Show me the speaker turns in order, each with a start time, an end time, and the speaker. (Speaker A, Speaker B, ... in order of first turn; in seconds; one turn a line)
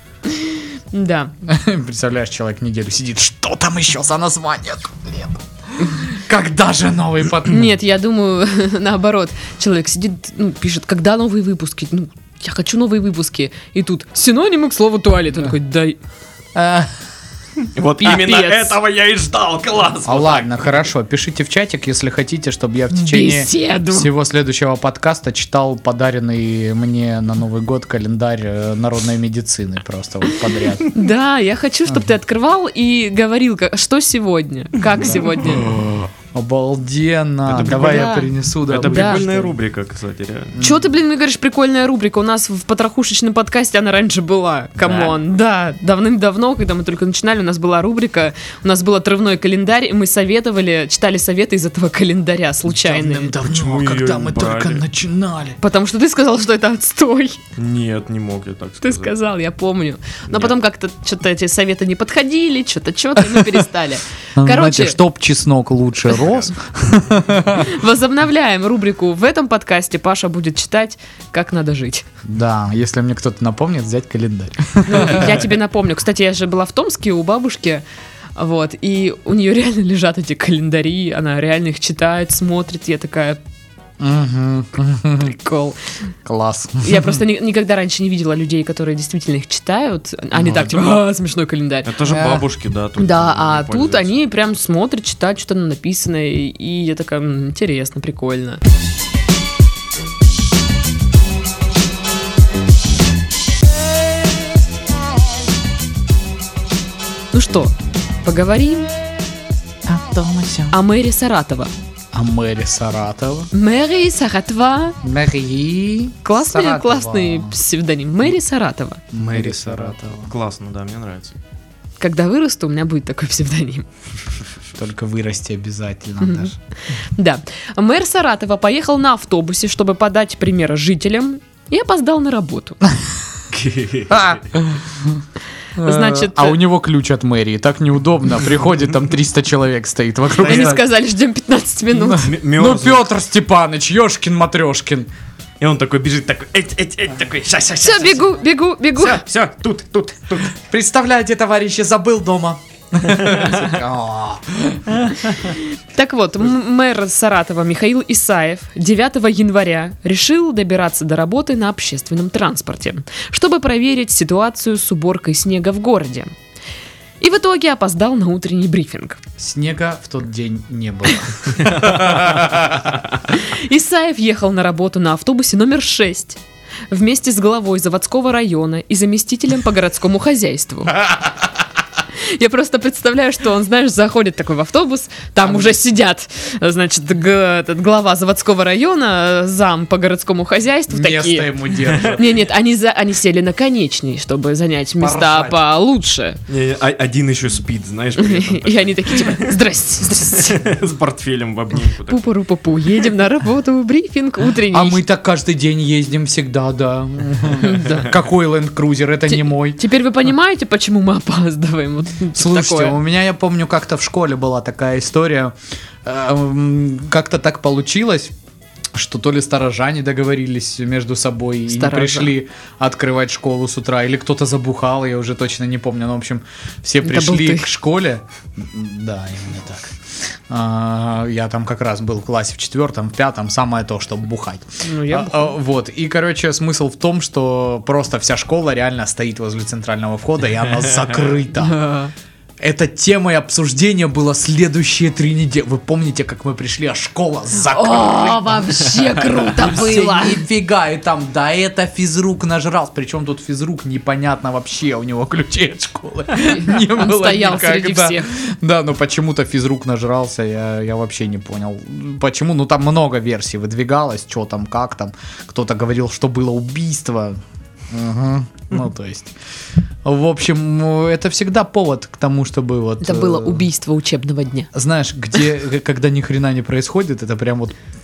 Speaker A: 0.2-1.3
Speaker B: 1.4-7.7
Speaker A: 5.8-6.1
Speaker A: 7.5-16.0
Speaker B: 16.5-16.9
Speaker C: 17.7-20.6
Speaker A: 18.0-18.8
Speaker B: 20.1-30.9
Speaker A: 22.9-24.1
Speaker A: 30.9-35.7
Speaker B: 35.0-39.5
Speaker C: 37.5-40.6
Speaker A: 37.6-38.3
Speaker A: 38.8-39.2
Speaker B: 40.5-40.9
Speaker A: 40.6-53.3
Speaker C: 44.8-45.1
Speaker B: 52.7-55.6
Speaker C: 53.4-54.8
Speaker A: 55.6-57.4
Speaker C: 57.5-59.1
Speaker A: 58.8-65.0
Speaker B: 64.3-67.7
Speaker A: 67.5-72.0
Speaker B: 72.2-75.4
Speaker A: 74.8-77.8
Speaker A: 78.3-83.4
Speaker B: 84.0-85.3
Speaker A: 85.2-85.8
Speaker B: 86.2-87.2
Speaker A: 86.8-91.9
Speaker B: 90.3-90.7
Speaker C: 91.8-94.1
Speaker B: 92.0-92.5
Speaker A: 93.0-98.6
Speaker A: 107.3-108.9
Speaker B: 109.8-110.8
Speaker A: 110.7-111.7
Speaker B: 112.1-113.5
Speaker A: 113.5-115.0
Speaker B: 115.0-117.5
Speaker A: 116.2-119.0
Speaker B: 119.1-120.3
Speaker C: 119.1-121.3
Speaker A: 122.0-123.9
Speaker B: 124.8-126.5
Speaker A: 126.2-132.8
Speaker C: 133.5-134.4
Speaker B: 134.1-135.2
Speaker B: 135.8-140.8
Speaker A: 135.8-136.6
Speaker C: 140.3-140.7
Speaker A: 140.4-142.3
Speaker B: 141.9-145.1
Speaker C: 142.1-143.1
Speaker C: 145.6-148.4
Speaker A: 147.8-149.2
Speaker C: 148.9-150.5
Speaker B: 150.5-155.3
Speaker C: 153.1-153.7
Speaker C: 155.0-155.4
Speaker A: 155.6-166.3
Speaker A: 167.2-169.2
Speaker B: 169.4-173.1
Speaker C: 171.6-172.4
Speaker A: 173.3-181.0
Speaker B: 181.1-181.5
Speaker A: 182.2-196.4
Speaker B: 190.9-192.3
Speaker C: 191.8-192.2
Speaker B: 195.0-195.6
Speaker C: 196.5-202.2
Speaker A: 198.2-200.6
Speaker A: 202.1-205.0
Speaker B: 204.7-209.8
Speaker A: 207.6-208.1
Speaker A: 209.3-213.0
Speaker B: 212.3-218.3
Speaker B: 218.9-229.9
Speaker A: 221.7-222.3
Speaker A: 227.0-227.7
Speaker B: 230.5-241.8
Speaker A: 234.8-235.6
Speaker C: 240.9-241.2
Speaker A: 241.6-242.1
Speaker B: 242.6-267.4
Speaker A: 247.7-250.4
Speaker A: 256.4-258.3
Speaker B: 267.9-269.3
Speaker B: 270.0-273.6
Speaker A: 273.0-274.7
Speaker B: 274.7-277.8